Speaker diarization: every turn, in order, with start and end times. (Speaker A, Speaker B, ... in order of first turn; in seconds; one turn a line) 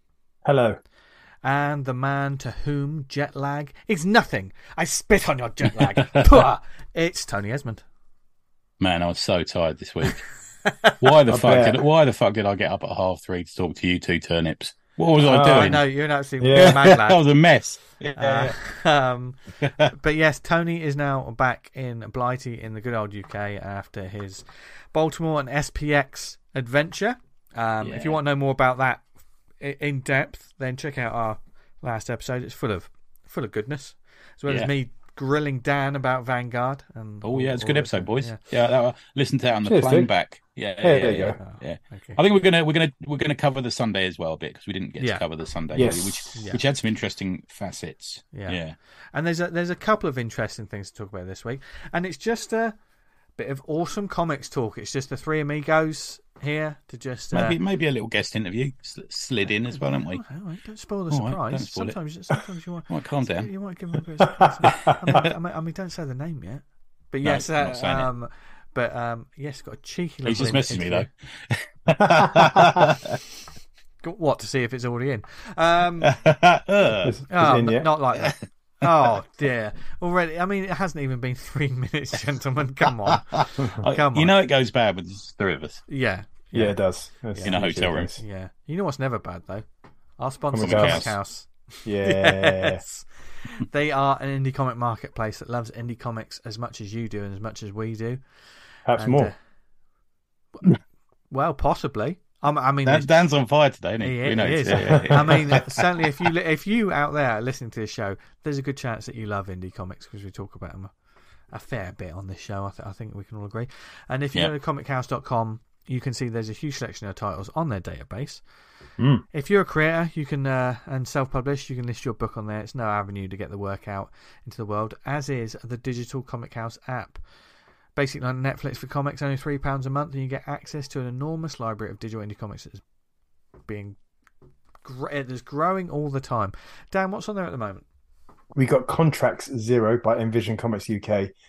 Speaker A: 0.4-0.8
Speaker B: 1.4-7.8
Speaker C: 5.8-6.4
Speaker C: 8.8-10.3
Speaker B: 10.7-10.9
Speaker C: 11.0-15.9
Speaker A: 11.3-11.8
Speaker A: 15.2-15.8
Speaker B: 15.2-17.2
Speaker A: 16.4-16.8
Speaker C: 16.5-18.6
Speaker B: 18.2-29.1
Speaker C: 19.6-19.9
Speaker C: 27.8-28.2
Speaker B: 29.6-38.4
Speaker C: 37.2-48.8
Speaker A: 39.6-40.1
Speaker A: 40.8-41.4
Speaker B: 41.4-42.2
Speaker A: 45.7-46.2
Speaker B: 46.3-46.6
Speaker B: 48.3-48.6
Speaker B: 49.1-52.8
Speaker B: 53.4-57.6
Speaker C: 57.3-60.2
Speaker B: 59.8-71.1
Speaker C: 61.1-62.0
Speaker C: 62.9-63.5
Speaker C: 67.2-68.1
Speaker C: 70.2-73.2
Speaker A: 72.3-72.8
Speaker B: 74.0-76.1
Speaker C: 76.0-77.1
Speaker A: 77.0-77.9
Speaker B: 77.3-84.3
Speaker C: 83.1-85.8
Speaker B: 85.9-86.8
Speaker A: 86.5-88.2
Speaker B: 87.3-89.6
Speaker C: 87.4-88.1
Speaker B: 90.2-99.3
Speaker A: 90.5-91.1
Speaker C: 90.6-91.1
Speaker A: 91.8-92.8
Speaker A: 98.8-99.3
Speaker B: 101.3-103.1
Speaker C: 102.8-105.7
Speaker B: 104.0-110.9
Speaker A: 104.7-105.4
Speaker B: 111.5-118.4
Speaker A: 119.0-119.2
Speaker B: 119.3-127.2
Speaker B: 128.0-132.8
Speaker B: 133.7-134.0
Speaker B: 134.8-137.8
Speaker A: 138.5-141.3